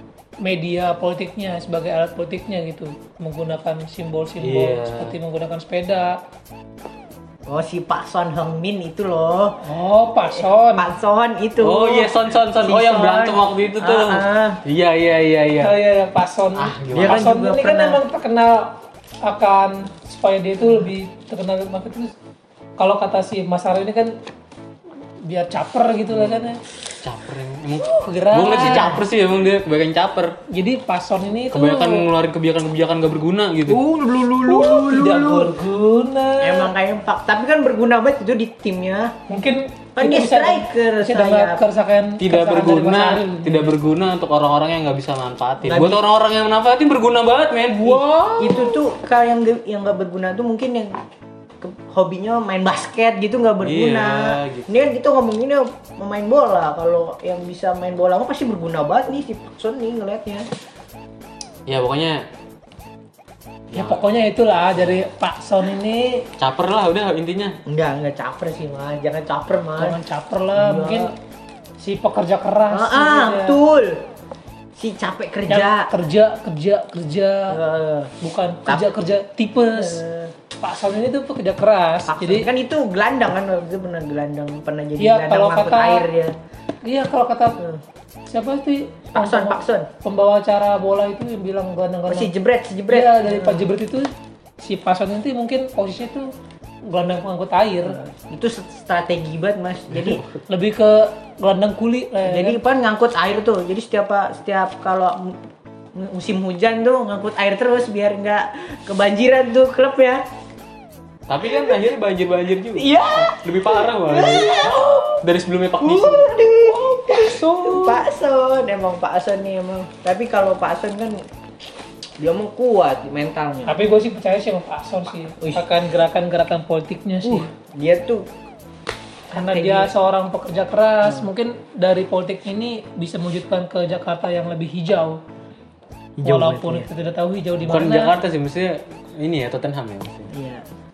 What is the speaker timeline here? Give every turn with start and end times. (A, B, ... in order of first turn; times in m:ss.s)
0:00.4-0:06.2 A
0:04.4-0:05.1 B
0:07.5-0:09.6 C
0:09.6-0:10.9 A
0:10.4-0:14.6 C
0:11.6-0:15.8 B
0:15.6-0:22.1 A
0:16.6-0:17.3 B
0:16.9-0:18.0 C
0:22.8-0:24.1 A
0:25.2-0:26.6 A
0:27.0-0:30.4 B
0:28.0-0:29.0 A
0:28.6-0:29.0 C
0:30.5-0:32.0 A
0:31.5-0:33.8 B
0:33.7-0:35.5 C
0:34.5-0:36.7 A
0:36.4-0:39.1 C
0:39.3-0:43.8 A
0:40.0-0:41.6 C
0:42.2-0:48.0 B
0:47.7-0:48.8 A
0:48.4-0:51.0 C
0:51.6-1:00.4 C
0:53.6-0:54.9 B
1:01.7-1:02.3 B
1:03.7-1:04.0 B
1:03.7-1:06.2 A
1:06.4-1:07.6 B
1:07.6-1:10.0 C
1:09.8-1:11.1 A
1:10.6-1:11.1 C
1:11.8-1:13.6 A
1:12.7-1:14.0 C
1:14.8-1:15.9 C
1:15.5-1:17.6 A
1:17.5-1:18.1 C
1:18.2-1:20.0 A
1:19.7-1:20.3 C
1:20.6-1:22.5 A
1:22.1-1:26.4 C
1:25.0-1:26.1 A
1:26.8-1:27.6 A
1:28.3-1:32.3 A
1:29.1-1:29.9 C
1:32.1-1:33.7 C
1:32.9-1:36.3 A
1:36.9-1:38.1 A
1:37.8-1:40.2 C
1:40.5-1:42.6 A
1:42.2-1:45.4 C
1:45.9-1:50.2 C
1:51.3-1:56.4 B
1:52.8-1:55.2 C
1:55.8-2:01.2 C
1:56.6-1:58.0 A
2:02.2-2:03.8 C
2:03.6-2:07.5 A
2:05.4-2:05.7 C
2:07.2-2:08.2 C
2:09.3-2:15.2 A
2:09.3-2:09.9 C
2:16.2-2:16.9 C
2:16.2-2:18.1 A
2:17.6-2:20.3 B
2:20.3-2:20.6 C